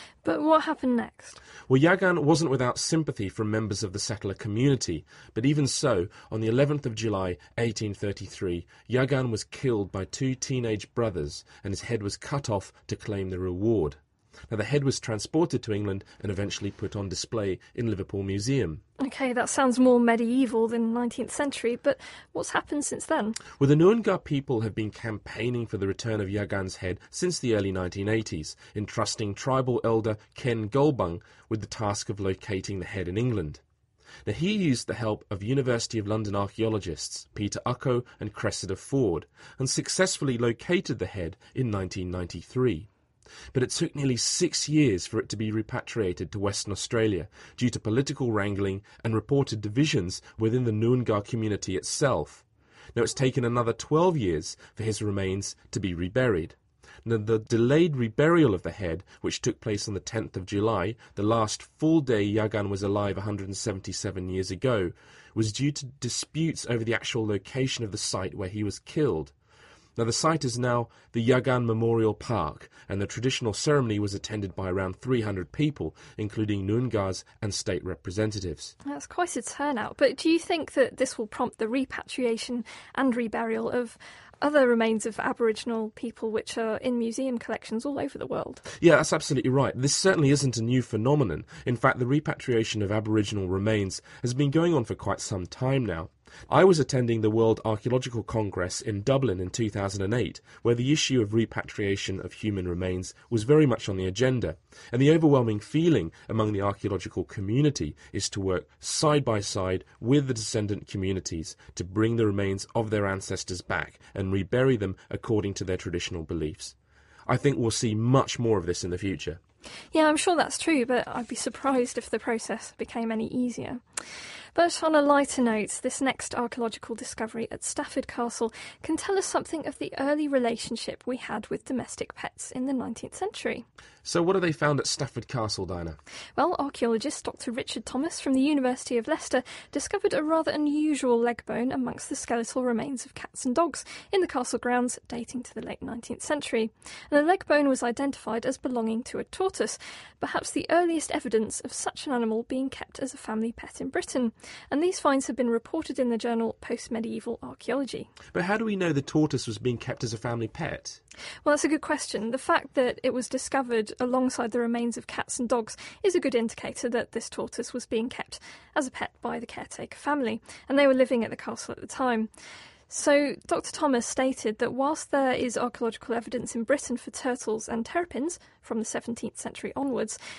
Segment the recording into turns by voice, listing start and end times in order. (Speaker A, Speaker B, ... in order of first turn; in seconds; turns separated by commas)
Speaker A: 0.2-1.4, Speaker B: 1.7-18.8, Speaker A: 19.0-23.4, Speaker B: 23.6-33.6, Speaker B: 34.2-42.9, Speaker B: 43.5-69.3, Speaker B: 70.0-78.7, Speaker A: 78.8-88.6, Speaker B: 88.8-116.7, Speaker B: 117.2-119.4, Speaker A: 119.9-124.0, Speaker A: 124.5-133.7, Speaker B: 134.0-136.0, Speaker A: 136.3-158.1, Speaker B: 158.3-161.0, Speaker A: 161.4-172.3, Speaker A: 172.9-180.2